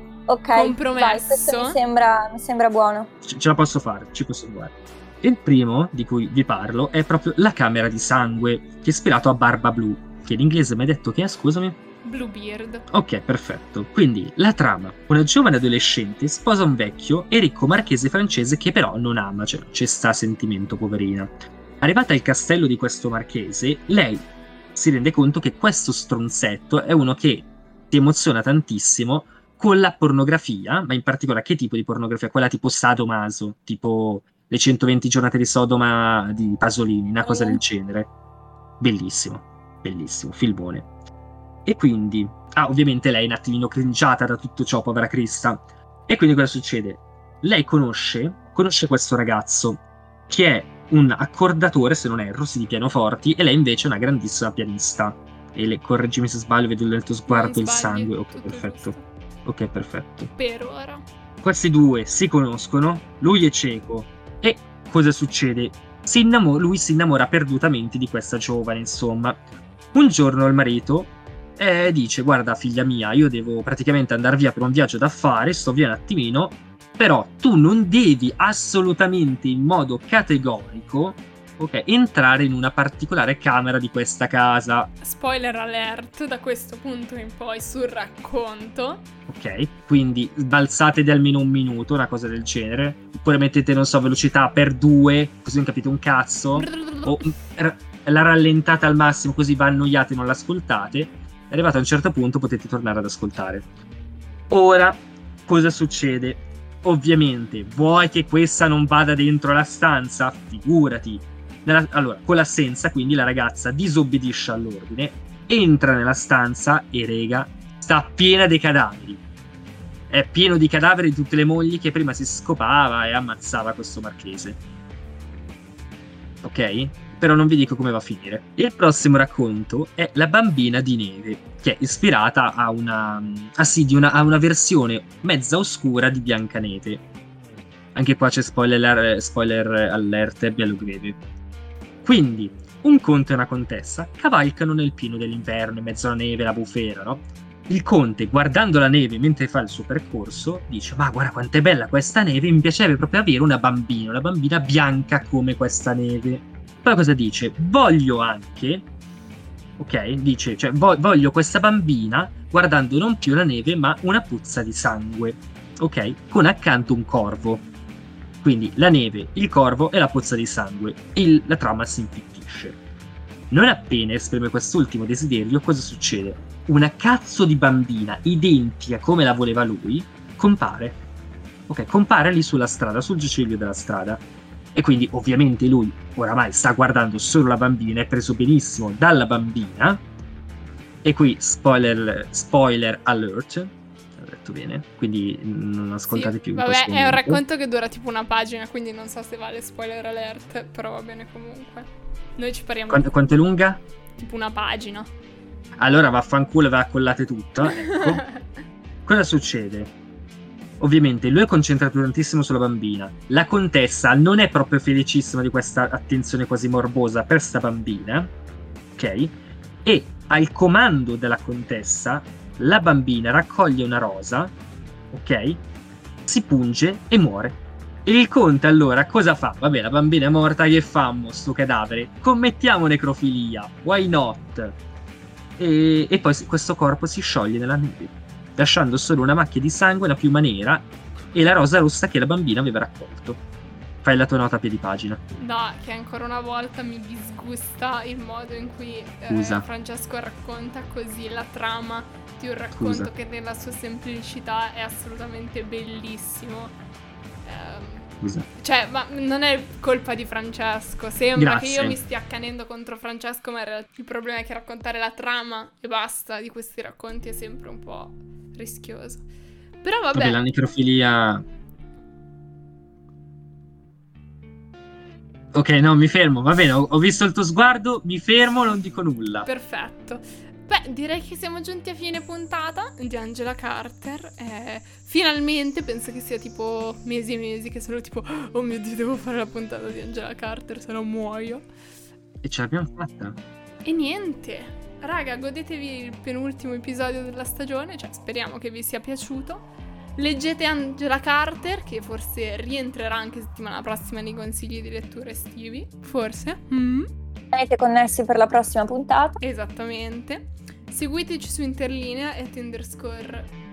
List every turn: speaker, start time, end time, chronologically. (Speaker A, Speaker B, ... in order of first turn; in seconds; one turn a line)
Speaker A: 0.3-3.1
Speaker B: 0.5-1.8
Speaker C: 3.2-11.8
Speaker B: 12.0-12.8
Speaker C: 12.9-24.2
Speaker C: 24.8-38.1
Speaker A: 37.2-37.6
Speaker C: 38.8-40.9
Speaker C: 41.7-58.9
Speaker B: 57.3-59.0
Speaker C: 59.5-60.3
Speaker B: 60.4-61.0
Speaker C: 61.4-69.4
Speaker C: 69.9-84.9
Speaker B: 85.0-89.1
Speaker C: 89.3-103.7
Speaker B: 96.5-97.3
Speaker C: 104.5-119.2
Speaker C: 120.1-124.6
Speaker C: 126.4-137.0
Speaker C: 137.9-141.2
Speaker C: 142.0-158.8
Speaker C: 159.8-167.7
Speaker C: 168.4-172.8
Speaker C: 173.5-181.0
Speaker C: 181.7-184.2
Speaker C: 184.8-190.0
Speaker C: 191.0-197.4
Speaker B: 196.1-203.2
Speaker C: 202.9-203.8
Speaker B: 204.2-205.1
Speaker C: 205.8-208.3
Speaker B: 207.7-208.4
Speaker C: 209.1-209.9
Speaker C: 210.8-218.3
Speaker C: 219.0-219.3
Speaker C: 219.8-224.5
Speaker C: 225.1-225.6
Speaker C: 226.3-234.8
Speaker C: 235.6-243.4
Speaker C: 244.0-245.2
Speaker B: 245.3-256.8
Speaker C: 249.3-249.7
Speaker C: 252.8-253.1
Speaker B: 257.4-269.3
Speaker C: 258.2-258.5
Speaker C: 261.4-262.0
Speaker B: 269.8-270.4
Speaker C: 270.1-271.4
Speaker C: 275.5-279.5
Speaker B: 279.5-291.6
Speaker C: 292.4-293.4
Speaker B: 293.9-299.7
Speaker B: 300.2-307.1
Speaker A: 307.5-309.4
Speaker B: 309.4-313.5